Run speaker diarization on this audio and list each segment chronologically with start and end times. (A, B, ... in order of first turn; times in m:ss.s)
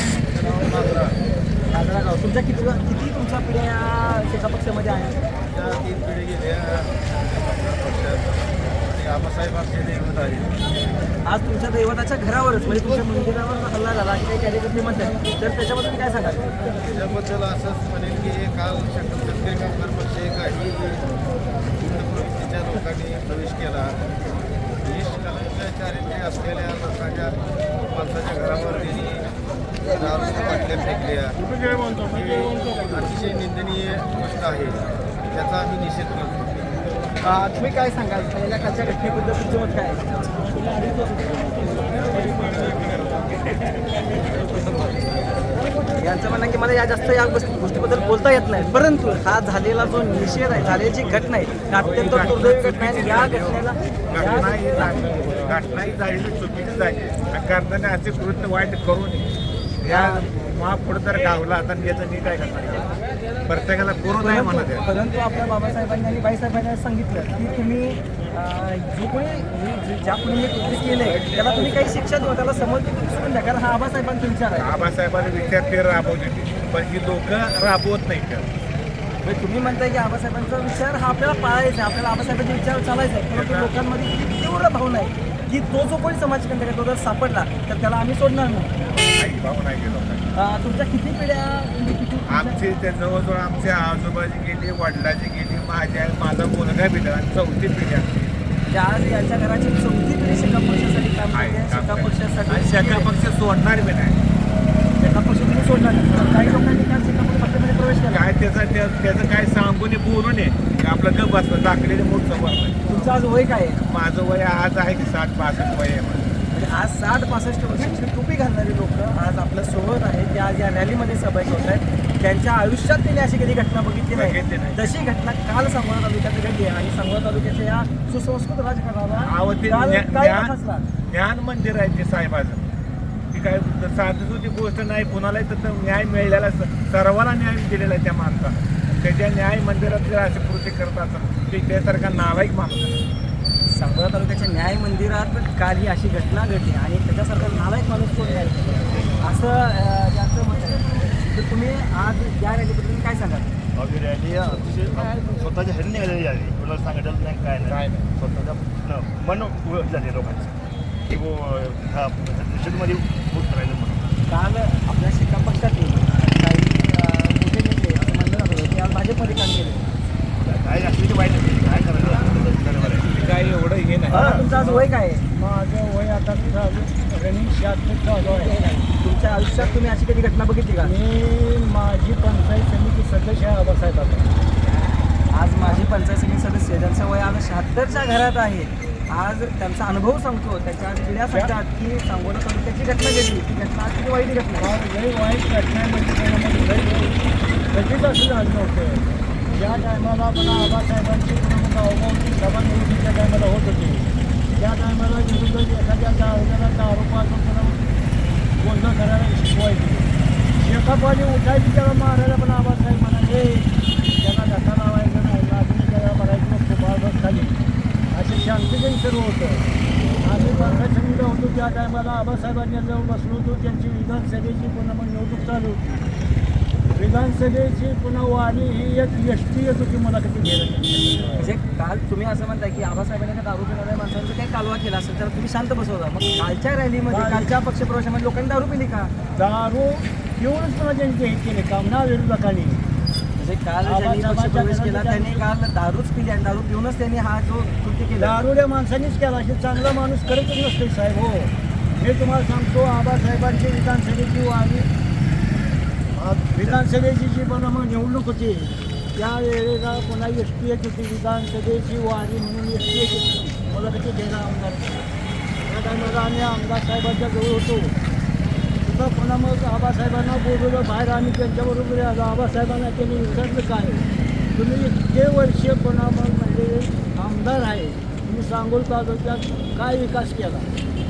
0:00.3-0:01.1 A
0:01.7-0:05.2 B
0:05.5-0:10.6 A
0:11.2-0:16.5 B
0:16.8-0:21.1 A
0:21.8-0:31.4 A
0:32.0-0:36.7 A
0:37.2-0:41.1 B
0:41.8-0:43.1 C
0:44.5-0:45.0 B
0:45.9-0:55.1 B
0:51.7-0:59.3 D
0:54.9-0:55.3 C
0:59.8-1:02.9 D
0:59.9-1:00.3 B
1:03.5-1:04.8 D
1:04.2-1:14.7 B
1:14.5-1:18.5 D
1:19.2-1:28.7 B
1:23.3-1:23.7 D
1:29.1-1:30.3 D
1:30.3-1:32.6 B
1:32.3-1:38.1 D
1:38.7-1:43.1 B
1:41.3-1:44.2 D
1:45.0-1:48.2 B
1:48.1-1:53.1 D
1:52.9-1:53.8 B
1:53.8-1:56.3 D
1:56.5-2:10.8 B
2:04.1-2:04.8 D
2:09.2-2:10.5 D
2:11.0-2:12.7 D
2:13.3-2:23.0 D
2:23.7-2:33.5 B
2:33.8-2:40.6 E
2:37.6-2:38.1 D
2:41.1-2:44.1 E
2:44.3-2:49.9 B
2:50.4-2:53.2 E
2:53.1-2:54.3 D
2:54.1-2:54.4 E
2:54.1-2:55.2 B
2:54.6-2:58.6 C
2:59.0-3:00.9 B
3:00.8-3:04.3 C
3:05.3-3:14.8 B
3:14.6-3:27.9 C
3:28.6-3:37.6 C
3:38.1-3:39.6 C
3:40.2-3:46.1 C
3:46.9-3:51.4 C
3:51.4-3:59.1 B
3:57.1-3:57.5 C
3:59.3-4:02.8 C
4:03.4-4:08.4 B
4:03.8-4:05.4 C
4:08.2-4:14.9 C
4:16.1-4:25.0 C
4:25.6-4:28.0 C
4:28.8-4:40.7 C